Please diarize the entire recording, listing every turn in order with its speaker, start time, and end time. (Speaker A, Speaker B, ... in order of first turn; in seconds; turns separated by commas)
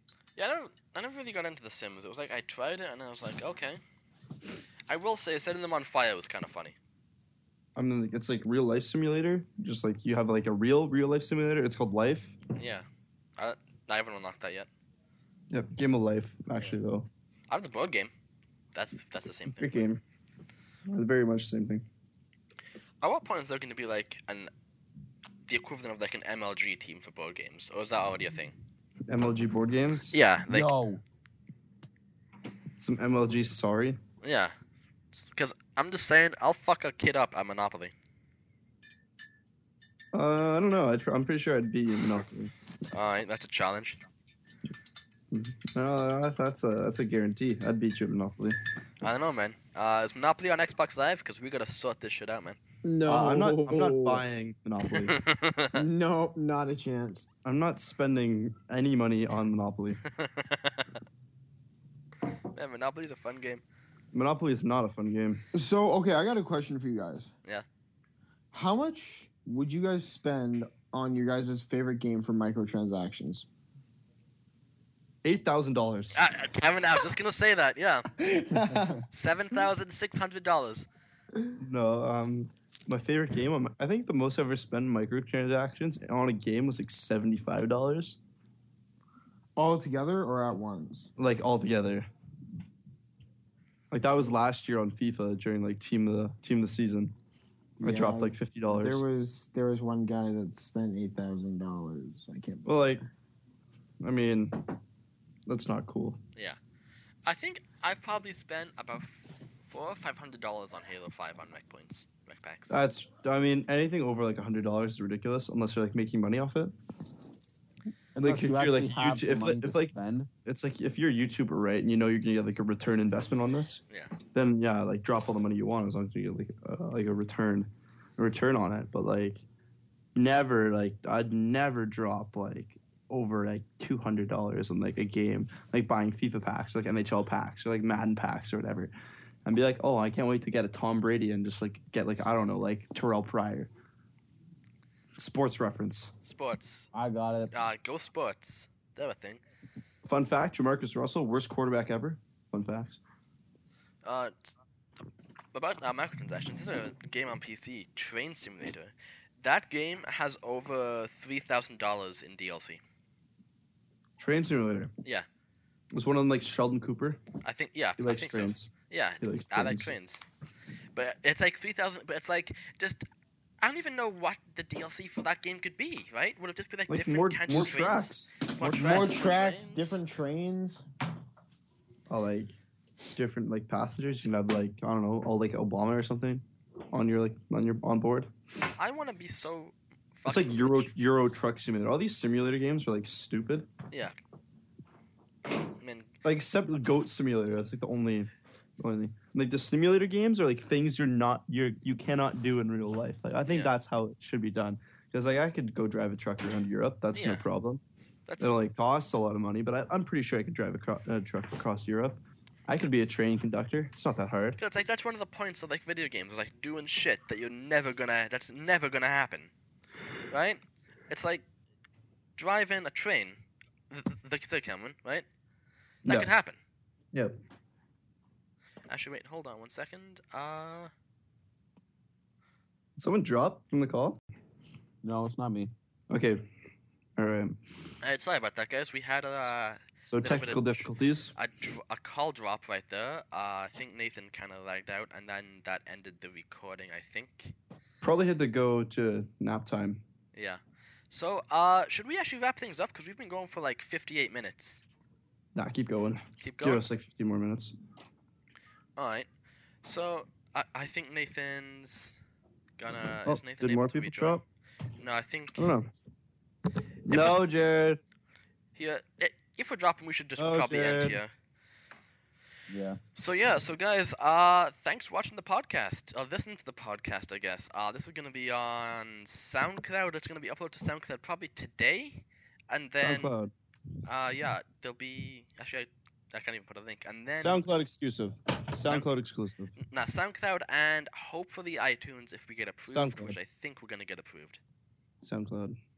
Speaker A: 0.3-3.8, Speaker A: 4.9-6.7, Speaker B: 7.8-12.4, Speaker A: 12.6-12.8, Speaker A: 13.4-14.7, Speaker B: 15.5-17.1, Speaker A: 17.5-18.1, Speaker A: 18.7-19.9, Speaker B: 19.5-20.0, Speaker B: 20.9-21.9, Speaker A: 23.0-24.5, Speaker A: 25.5-28.6, Speaker B: 29.1-30.2, Speaker A: 30.1-30.7, Speaker C: 30.5-31.0, Speaker B: 32.8-34.0, Speaker A: 34.2-34.5, Speaker A: 35.1-37.9, Speaker B: 40.1-42.5, Speaker A: 42.9-44.0, Speaker B: 45.3-48.6, Speaker A: 49.0-52.6, Speaker D: 52.8-54.2, Speaker B: 53.0-55.2, Speaker A: 54.9-55.8, Speaker D: 55.7-57.3, Speaker B: 57.4-60.0, Speaker A: 60.0-60.9, Speaker A: 62.5-63.6, Speaker B: 64.1-65.4, Speaker D: 65.5-67.3, Speaker D: 68.5-73.5, Speaker B: 75.2-76.2, Speaker A: 76.1-78.1, Speaker D: 78.2-79.0, Speaker A: 79.1-80.8, Speaker B: 81.6-88.2, Speaker D: 89.5-91.1, Speaker B: 91.2-92.1, Speaker B: 93.9-97.1, Speaker D: 97.8-103.0, Speaker B: 97.8-99.0, Speaker B: 102.6-103.0, Speaker B: 104.0-104.8, Speaker B: 105.5-106.2, Speaker A: 107.2-112.8, Speaker B: 112.7-116.7, Speaker C: 118.1-120.3, Speaker B: 118.2-119.9, Speaker B: 120.4-129.4, Speaker B: 130.1-138.9, Speaker B: 139.4-143.7, Speaker B: 145.2-146.1, Speaker A: 146.2-146.9, Speaker C: 146.9-147.5, Speaker A: 147.5-149.4, Speaker B: 150.0-153.0, Speaker A: 154.0-154.5, Speaker A: 155.5-162.8, Speaker B: 164.2-164.9, Speaker B: 165.9-167.2, Speaker A: 167.4-170.2, Speaker B: 168.0-169.9, Speaker A: 170.9-173.0, Speaker A: 173.6-180.0, Speaker B: 176.9-179.1, Speaker D: 178.7-180.8, Speaker B: 182.1-182.5, Speaker B: 183.2-188.3, Speaker A: 188.8-190.9, Speaker B: 190.2-193.7, Speaker A: 195.6-196.1, Speaker B: 196.2-207.8, Speaker A: 207.1-207.4, Speaker A: 208.2-208.5, Speaker B: 208.4-214.6, Speaker A: 214.6-219.5, Speaker A: 220.3-221.4, Speaker A: 222.4-223.4, Speaker A: 223.9-225.2, Speaker A: 226.0-226.6, Speaker A: 228.9-230.9, Speaker B: 232.9-234.2, Speaker C: 235.0-235.7, Speaker B: 236.1-236.5, Speaker B: 237.2-237.6, Speaker A: 238.0-247.5, Speaker B: 240.0-241.3, Speaker B: 248.0-250.0, Speaker A: 250.3-254.8, Speaker B: 255.5-257.7, Speaker A: 256.4-256.8, Speaker A: 259.0-259.3, Speaker A: 259.8-262.1, Speaker A: 262.8-264.4, Speaker B: 263.2-264.4, Speaker A: 265.0-265.7, Speaker B: 265.5-265.9, Speaker B: 267.0-268.0, Speaker A: 267.1-267.4, Speaker A: 268.8-271.3, Speaker B: 270.4-271.2, Speaker C: 272.7-273.0, Speaker A: 273.1-283.3, Speaker B: 283.0-283.5, Speaker A: 284.0-287.6, Speaker B: 287.4-289.7, Speaker A: 289.8-294.6, Speaker B: 292.9-293.4, Speaker B: 295.2-295.8